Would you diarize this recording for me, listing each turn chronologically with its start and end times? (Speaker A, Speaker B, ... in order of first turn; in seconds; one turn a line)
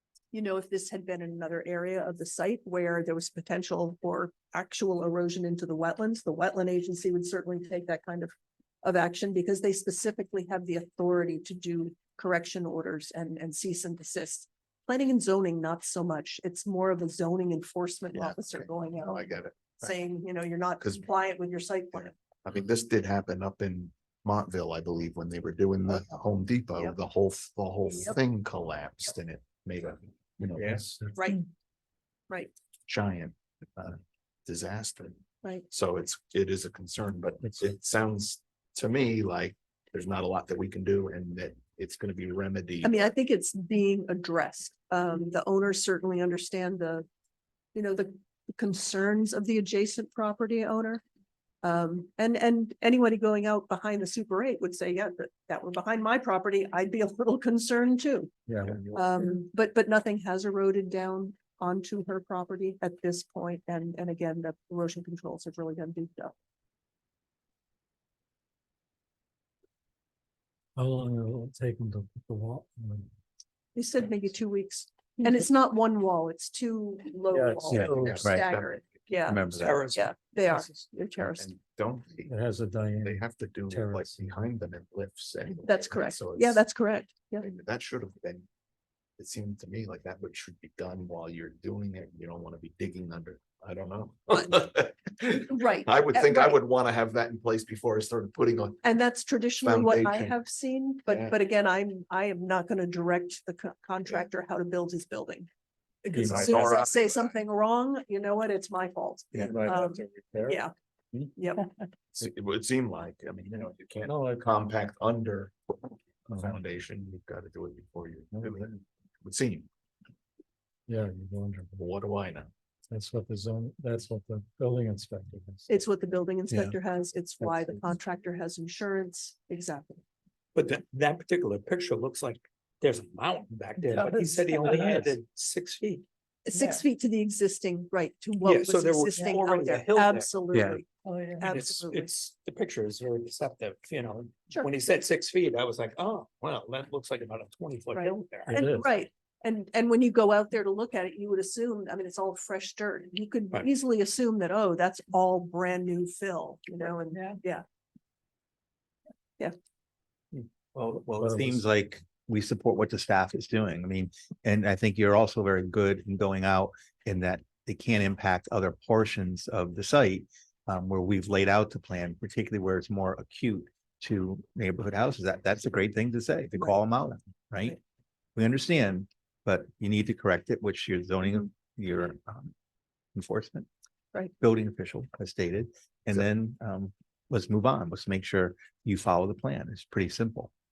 Speaker A: 0.3-19.2
Speaker B: 18.1-19.9
Speaker A: 19.8-22.1
Speaker B: 21.9-30.8
Speaker A: 27.9-28.1
Speaker C: 30.5-31.2
Speaker A: 31.1-31.4
Speaker B: 32.9-43.1
Speaker C: 37.4-37.7
Speaker A: 42.8-47.1
Speaker A: 47.7-51.0
Speaker A: 51.6-58.3
Speaker C: 58.5-58.9
Speaker B: 58.7-58.9
Speaker A: 58.9-66.3
Speaker C: 70.8-73.1
Speaker A: 73.7-81.5
Speaker C: 77.3-78.2
Speaker B: 77.7-79.0
Speaker D: 77.7-78.5
Speaker D: 79.3-80.0
Speaker E: 79.5-80.8
Speaker B: 81.2-82.3
Speaker C: 82.2-84.5
Speaker B: 83.0-86.6
Speaker A: 85.6-87.5
Speaker B: 87.4-88.5
Speaker B: 89.2-98.8
Speaker A: 95.5-96.6
Speaker A: 98.8-105.5
Speaker B: 99.6-100.3
Speaker B: 101.1-101.3
Speaker A: 106.0-110.7
Speaker C: 106.1-106.7
Speaker B: 106.1-107.3
Speaker C: 109.3-110.6
Speaker A: 111.3-111.7
Speaker B: 112.1-119.7
Speaker C: 114.0-114.5
Speaker C: 120.9-121.8
Speaker B: 121.8-122.5
Speaker C: 122.9-125.8
Speaker A: 125.7-130.0
Speaker C: 126.5-126.8
Speaker C: 127.4-127.8
Speaker E: 130.5-136.0
Speaker C: 134.0-135.1
Speaker A: 136.5-142.1
Speaker E: 138.4-140.3
Speaker D: 140.5-140.8
Speaker E: 141.4-148.6
Speaker A: 147.9-157.6
Speaker C: 148.5-148.9
Speaker D: 160.3-177.8
Speaker C: 161.2-161.6
Speaker D: 178.3-182.5
Speaker D: 183.1-183.7
Speaker D: 184.4-190.5